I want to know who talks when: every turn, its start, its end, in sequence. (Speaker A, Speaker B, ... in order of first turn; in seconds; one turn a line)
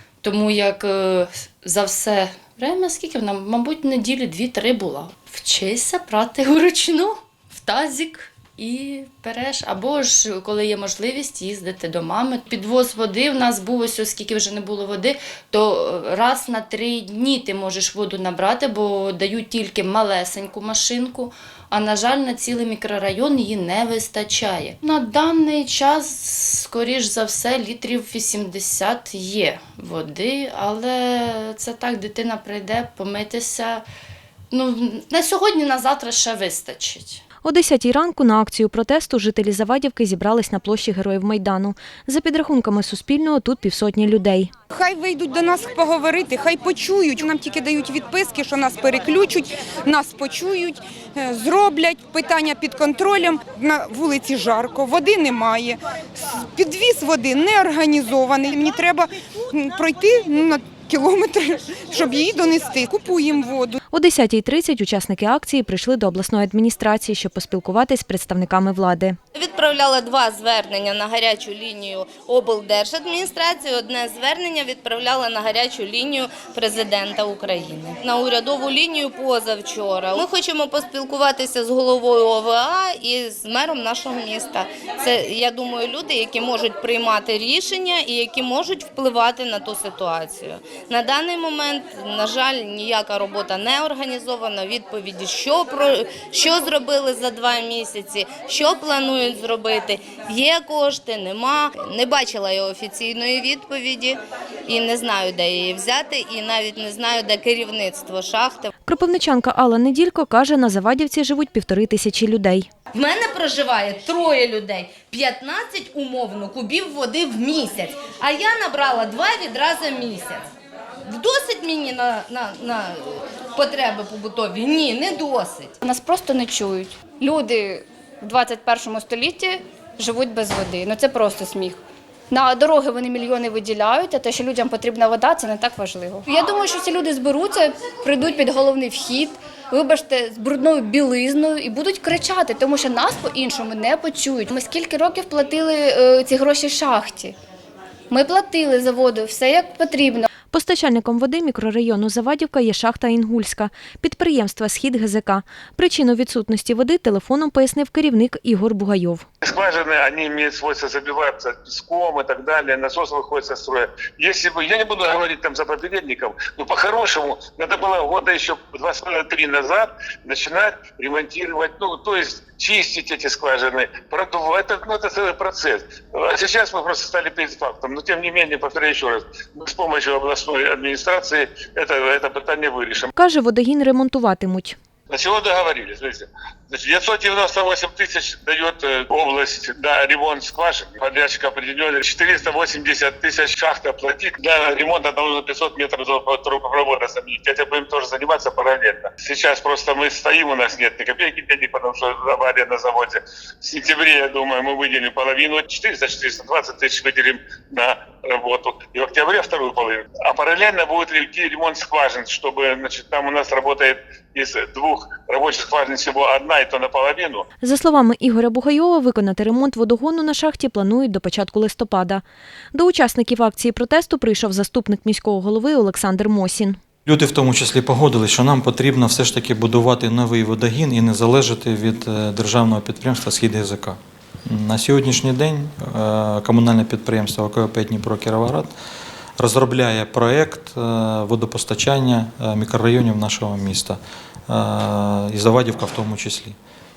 Speaker A: 0.2-33.8
Speaker A: 34.5-37.2
Speaker B: 37.4-44.5
Speaker C: 44.7-63.8
Speaker B: 63.9-69.2
Speaker D: 69.3-108.7
Speaker B: 108.9-112.7
Speaker D: 112.9-120.5
Speaker D: 121.1-125.8
Speaker E: 125.8-131.8
Speaker E: 132.3-147.4
Speaker E: 148.1-150.3
Speaker B: 150.5-159.3
Speaker F: 159.4-183.1
Speaker B: 183.2-184.8
Speaker F: 185.1-217.4
Speaker B: 217.6-226.8
Speaker G: 227.1-238.7
Speaker G: 239.4-246.6